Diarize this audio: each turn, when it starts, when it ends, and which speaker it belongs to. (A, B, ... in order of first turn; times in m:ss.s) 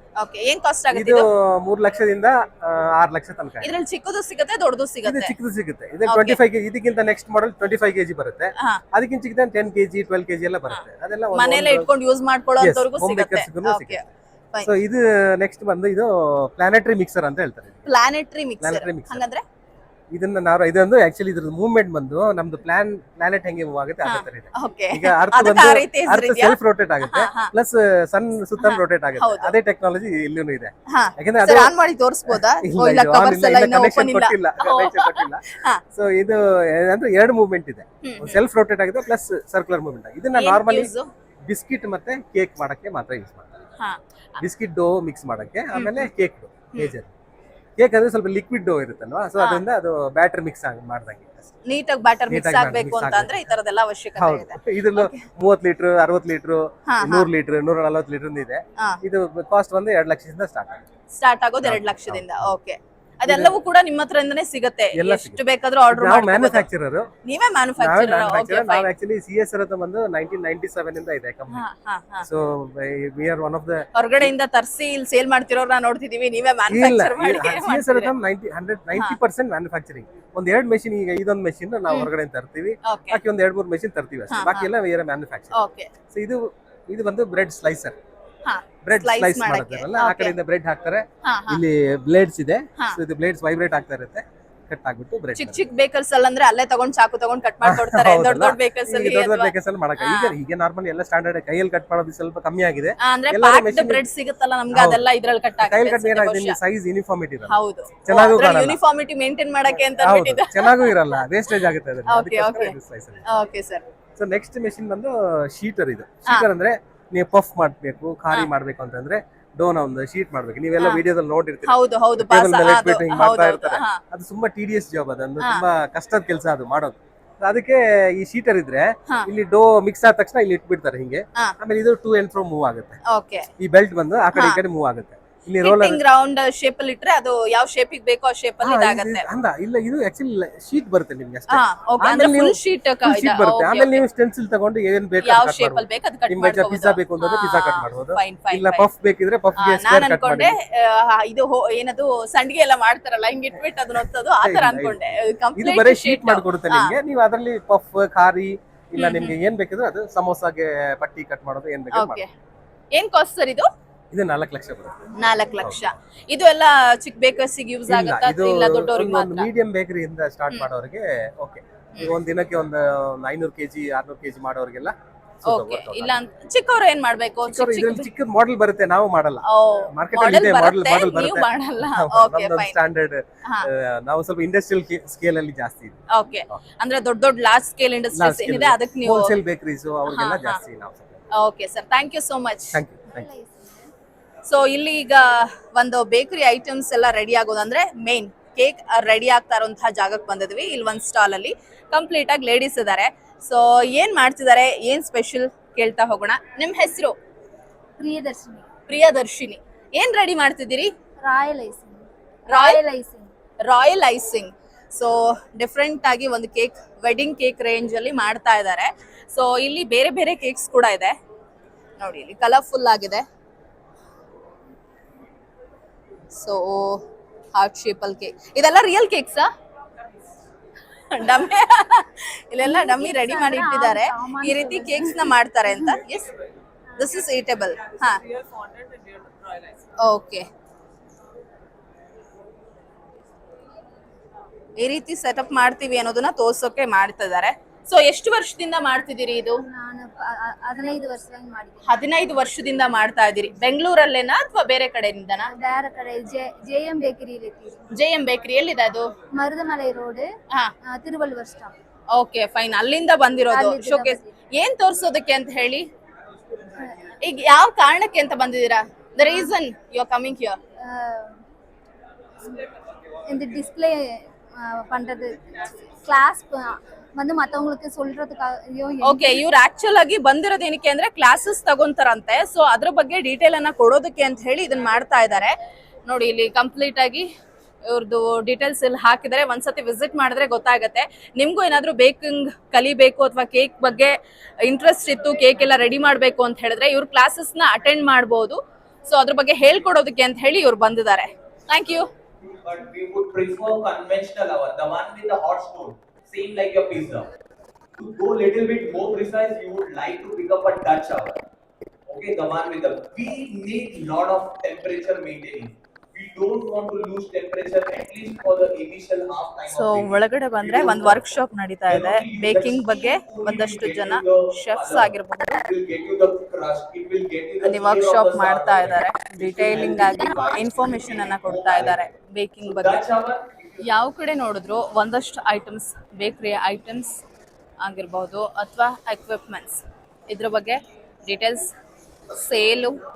0:00.2-0:01.3 A
0:00.9-0:03.7 B
0:03.6-0:05.3 A
0:05.0-0:11.9 B
0:06.1-0:06.4 A
0:11.3-0:14.7 A
0:12.6-0:14.0 B
0:14.6-0:17.9 B
0:17.8-0:19.4 A
0:18.6-0:19.2 B
0:20.1-0:40.9 B
0:24.0-0:27.5 A
0:28.6-0:29.5 A
0:30.9-0:35.8 A
0:38.0-0:38.4 A
0:40.3-0:41.1 A
0:41.4-0:43.7 B
0:44.4-0:47.1 B
0:45.7-0:46.0 A
0:47.8-0:51.5 B
0:49.4-0:49.6 A
0:51.6-0:55.2 A
0:52.3-0:53.5 B
0:54.2-1:00.8 B
0:56.9-0:57.3 A
1:01.1-1:06.7 A
1:01.6-1:02.5 B
1:03.2-1:03.6 B
1:04.9-1:07.1 B
1:07.2-1:08.9 A
1:07.8-1:11.6 B
1:11.5-1:12.3 A
1:12.2-1:14.3 B
1:13.9-1:18.1 A
1:16.7-1:25.6 B
1:22.8-1:23.2 A
1:24.3-1:24.7 A
1:25.5-1:25.9 A
1:26.1-1:28.0 B
1:28.4-1:30.4 A
1:28.8-1:35.6 B
1:31.2-1:31.6 A
1:35.3-1:40.3 A
1:37.6-1:44.0 B
1:43.0-1:46.6 A
1:44.7-1:45.1 B
1:45.6-1:48.8 B
1:47.5-1:51.5 A
1:49.7-1:53.3 B
1:52.1-1:53.8 A
1:54.2-2:13.0 B
2:00.8-2:01.0 A
2:01.6-2:04.0 A
2:13.0-2:13.5 A
2:13.6-2:16.0 B
2:14.3-2:14.6 A
2:15.6-2:19.3 A
2:18.6-2:30.5 B
2:21.5-2:24.0 A
2:25.2-2:28.8 A
2:29.6-2:36.9 A
2:34.4-2:42.2 B
2:39.0-2:39.3 A
2:41.9-2:42.3 A
2:42.9-2:43.7 A
2:44.1-2:45.0 B
2:45.2-2:49.5 A
2:45.6-2:46.0 B
2:47.9-2:56.2 B
2:55.4-2:58.1 A
2:57.4-3:06.6 B
2:59.5-3:02.8 A
3:06.1-3:09.4 A
3:08.2-3:11.2 B
3:10.1-3:10.6 A
3:11.3-3:12.8 A
3:12.7-3:13.3 B
3:13.1-3:13.9 C
3:14.4-3:27.2 A
3:28.0-3:28.7 C
3:28.9-3:30.9 A
3:31.2-3:33.3 C
3:32.5-3:32.8 A
3:33.6-3:41.2 A
3:42.0-3:43.2 A
3:46.3-3:47.0 A
3:47.5-3:49.5 A
3:51.1-3:56.3 A
3:52.6-3:56.0 C
3:57.0-3:58.2 A
4:00.0-4:00.5 A
4:04.8-4:09.6 A
4:09.6-4:12.0 C
4:11.8-4:15.5 A
4:15.5-4:17.8 C
4:17.9-4:19.1 A
4:19.3-4:20.3 C
4:20.8-4:21.7 C
4:22.1-4:25.9 A
4:23.5-4:24.4 C
4:26.8-4:27.1 C
4:27.2-4:30.6 A
4:29.2-4:29.5 C
4:30.8-4:31.4 C
4:33.3-4:39.4 C
4:39.0-4:47.3 A
4:47.8-5:02.1 A
5:02.4-5:07.3 D
5:08.0-5:11.4 D
5:12.1-5:32.1 D
5:19.7-5:25.7 A
5:27.6-5:33.0 A
5:32.6-5:33.8 D
5:33.8-5:37.2 A
5:37.8-5:41.7 A
5:42.3-5:43.0 A